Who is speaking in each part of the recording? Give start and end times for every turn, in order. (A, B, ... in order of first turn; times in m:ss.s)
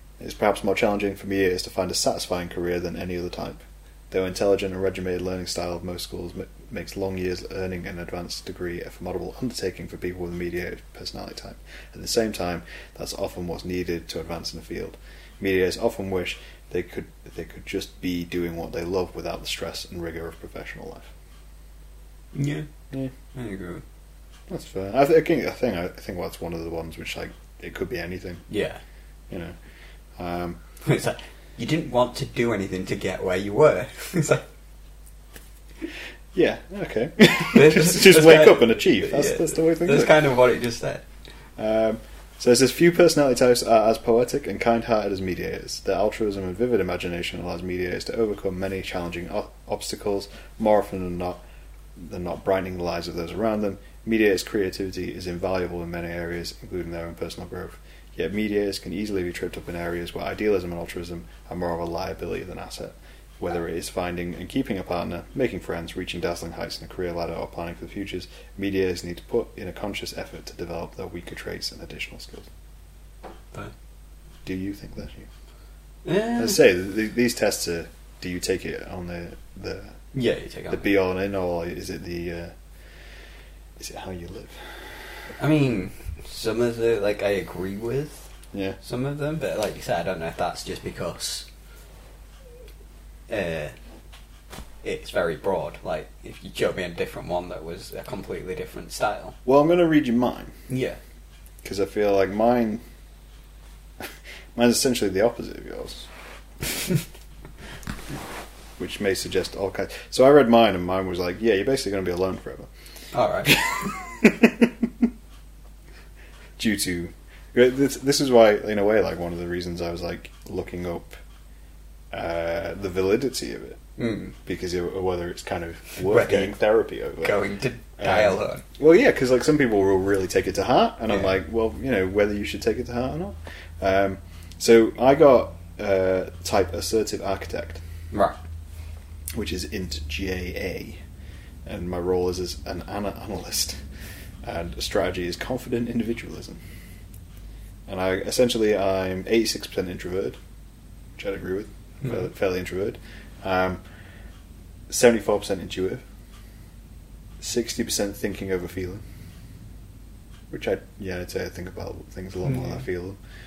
0:00.2-0:21.1 A
0:22.3-0:22.6 B
0:23.3-0:23.8 B
0:24.5-0:28.4 A
0:28.5-0:28.8 B
0:29.3-0:29.6 A
0:30.2-0:30.6 A
0:30.8-0:34.4 B
0:36.3-0:40.2 A
0:37.5-0:41.0 B
0:41.6-0:51.4 A
0:52.0-1:12.5 A
1:14.4-1:15.3 A
1:16.0-1:16.6 B
1:16.3-1:19.9 A
1:20.1-1:20.9 B
1:20.7-1:22.5 A
1:23.8-1:24.6 A
1:25.4-1:28.3 B
1:28.5-1:28.8 A
1:28.8-1:31.4 B
1:33.3-1:33.7 B
1:34.8-1:39.4 B
1:39.4-1:40.5 A
1:40.7-1:41.0 B
1:41.6-1:42.8 A
1:44.0-1:46.1 A
1:48.8-1:52.7 A
1:53.1-1:53.7 B
1:53.4-1:55.0 A
1:56.6-2:01.1 A
2:02.1-2:03.8 A
2:04.0-2:04.3 B
2:04.4-2:07.4 A
2:06.0-2:06.6 B
2:07.2-2:08.6 B
2:08.0-2:17.8 A
2:11.1-2:11.3 B
2:18.1-2:18.4 B
2:19.3-2:21.0 A
2:21.6-2:23.8 A
2:24.4-2:26.6 A
2:27.9-2:30.4 A
2:31.2-2:33.8 A
2:34.9-2:36.0 A
2:37.4-2:39.0 A
2:40.5-2:43.2 A
2:42.4-2:42.8 B